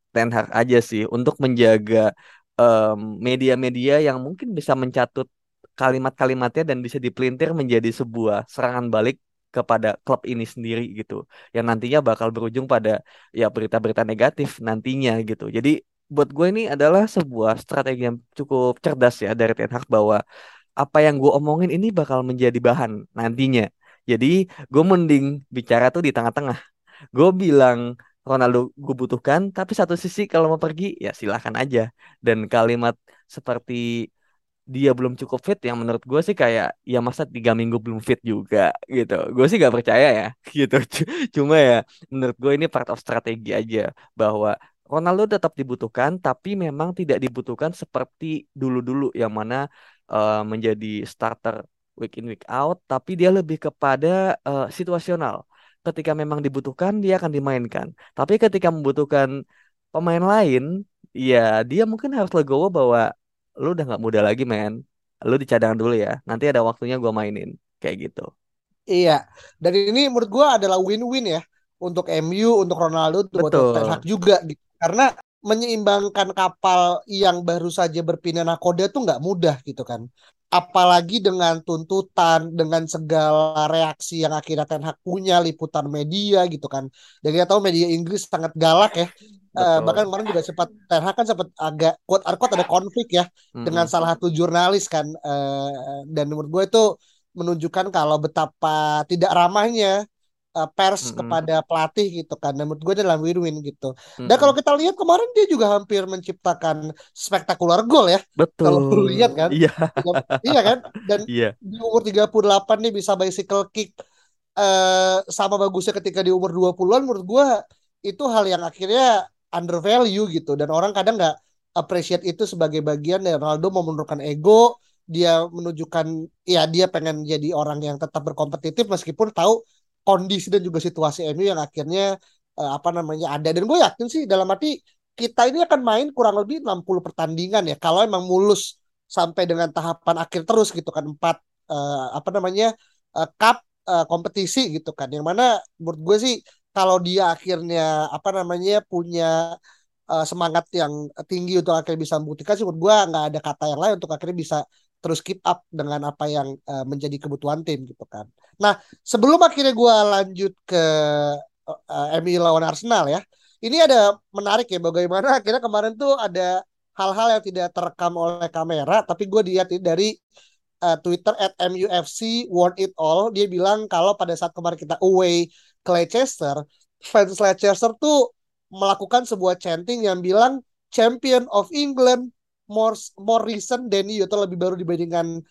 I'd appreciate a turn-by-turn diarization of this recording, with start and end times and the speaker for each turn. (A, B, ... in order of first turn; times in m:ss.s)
0:00.1-0:02.0 A
0:02.6-0:05.2 A
0:05.8-0:20.2 A
0:20.8-0:26.6 A
0:27.2-0:33.8 A
0:34.7-0:49.6 A
0:50.1-0:59.3 A
0:59.9-1:00.6 A
1:01.2-1:03.0 A
1:03.6-1:04.7 A
1:05.3-1:08.3 A
1:08.9-1:20.0 B
1:13.3-1:14.0 A
1:20.5-1:36.8 B
1:29.6-1:30.0 A
1:33.6-1:33.9 A
1:37.4-1:40.0 B
1:40.6-1:53.9 B
1:41.0-1:41.4 A
1:44.2-1:44.5 A
1:48.4-1:50.7 A
1:54.6-1:57.5 B
1:58.1-2:09.6 B
2:10.1-2:12.0 B
2:12.6-2:18.6 B
2:19.1-2:22.7 B
2:23.2-2:29.3 B
2:30.1-2:50.1 B
2:50.9-2:58.2 B
2:58.8-3:05.3 B